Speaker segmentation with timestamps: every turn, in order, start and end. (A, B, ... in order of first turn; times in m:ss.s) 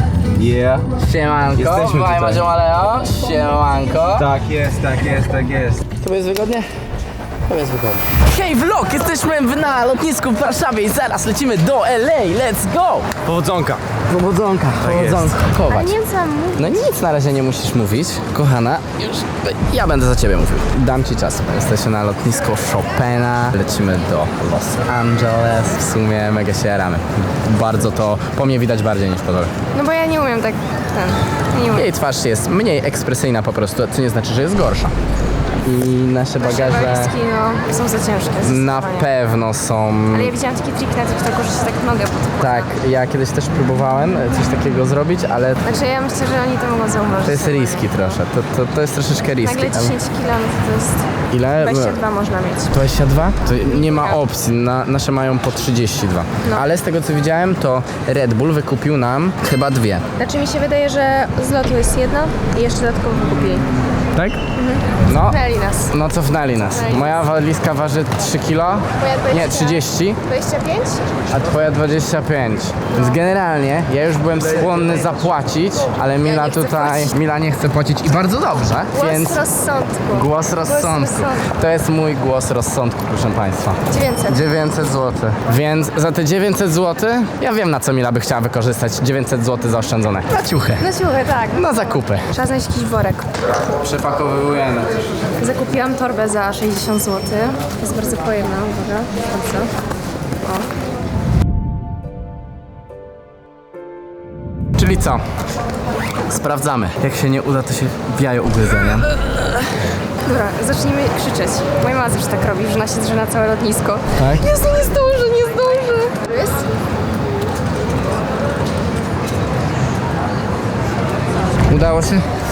0:00.3-0:00.9 A
0:00.9-0:04.3 B
0:01.5-0:02.4 A
0:04.1-0:05.8 A
0:06.0-0:06.7 B
0:07.5-0:15.9 B
0:14.9-0:15.3 A
0:15.7-0:16.9 C
0:16.5-0:29.5 B
0:29.7-0:31.9 C
0:31.7-0:35.0 B
0:35.6-0:37.2 B
0:36.4-0:39.1 C
0:38.4-0:40.3 B
0:40.1-0:42.7 C
0:42.4-0:45.6 B
0:45.6-0:48.2 C
0:47.2-0:50.0 B
0:49.4-0:52.7 C
0:51.3-0:52.0 B
0:52.7-1:00.0 B
0:53.5-0:54.2 C
1:00.2-1:03.7 C
1:04.1-1:04.4 B
1:04.5-1:06.0 C
1:05.0-1:10.2 B
1:06.7-1:07.3 C
1:09.0-1:11.0 C
1:11.3-1:19.4 B
1:16.2-1:17.1 C
1:18.9-1:21.5 C
1:20.1-1:30.9 B
1:23.9-1:24.5 C
1:30.8-1:33.3 C
1:31.5-1:32.3 B
1:33.5-1:35.0 B
1:35.4-1:39.7 C
1:40.4-1:40.7 C
1:44.8-1:45.2 B
1:46.2-1:49.1 B
1:50.2-1:56.7 C
1:54.2-1:54.6 B
2:01.6-2:02.3 B